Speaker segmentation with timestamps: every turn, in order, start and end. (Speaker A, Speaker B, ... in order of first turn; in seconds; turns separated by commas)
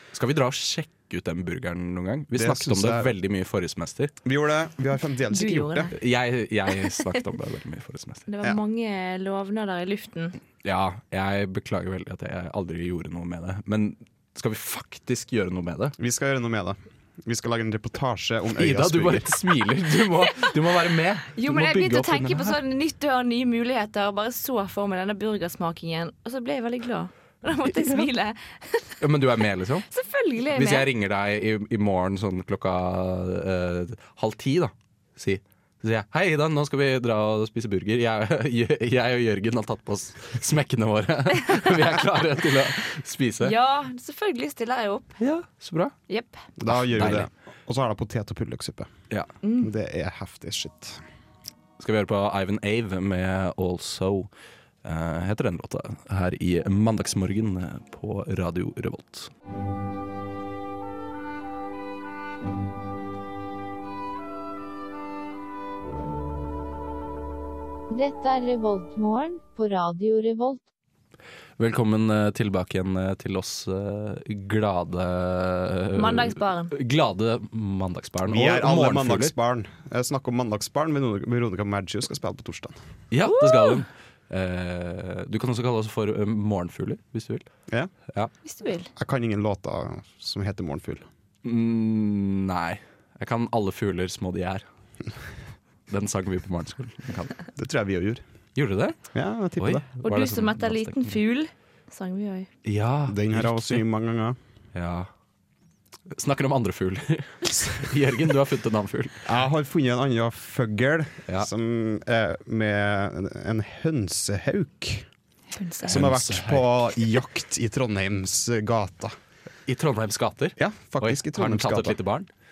Speaker A: 0.1-4.1, Speaker B: 2.3-3.1, Speaker B: 4.2-5.9, Speaker C: 5.3-5.9, Speaker A: 5.9-8.3, Speaker C: 8.3-10.4, Speaker A: 10.6-15.9, Speaker B: 16.0-19.3, Speaker A: 18.6-22.6, Speaker C: 20.3-20.5, Speaker C: 21.3-29.2, Speaker A: 27.6-28.1, Speaker A: 29.0-29.9, Speaker C: 29.9-30.9, Speaker A: 30.5-43.5, Speaker C: 43.4-45.2, Speaker A: 45.2-45.9, Speaker C: 46.1-46.4, Speaker B: 46.6-48.9, Speaker A: 46.7-47.3, Speaker C: 49.4-49.7, Speaker B: 49.6-51.0, Speaker A: 51.8-54.3, Speaker A: 54.8-59.3, Speaker D: 67.9-70.6, Speaker A: 71.6-79.3, Speaker C: 76.0-76.7, Speaker B: 78.2-82.8, Speaker A: 83.1-87.5, Speaker C: 83.2-83.8, Speaker C: 88.5-88.9, Speaker B: 89.0-91.1, Speaker A: 91.4-94.6, Speaker A: 95.9-97.4, Speaker B: 97.5-98.2, Speaker A: 98.6-99.0, Speaker B: 99.1-99.9, Speaker A: 99.6-101.2, Speaker C: 100.0-102.5, Speaker A: 102.7-103.8, Speaker B: 103.1-104.4, Speaker A: 104.7-105.1, Speaker A: 106.1-109.2, Speaker B: 109.2-115.1, Speaker C: 115.5-116.0, Speaker A: 115.8-116.9, Speaker B: 115.9-119.2, Speaker A: 119.7-122.3, Speaker B: 120.6-122.0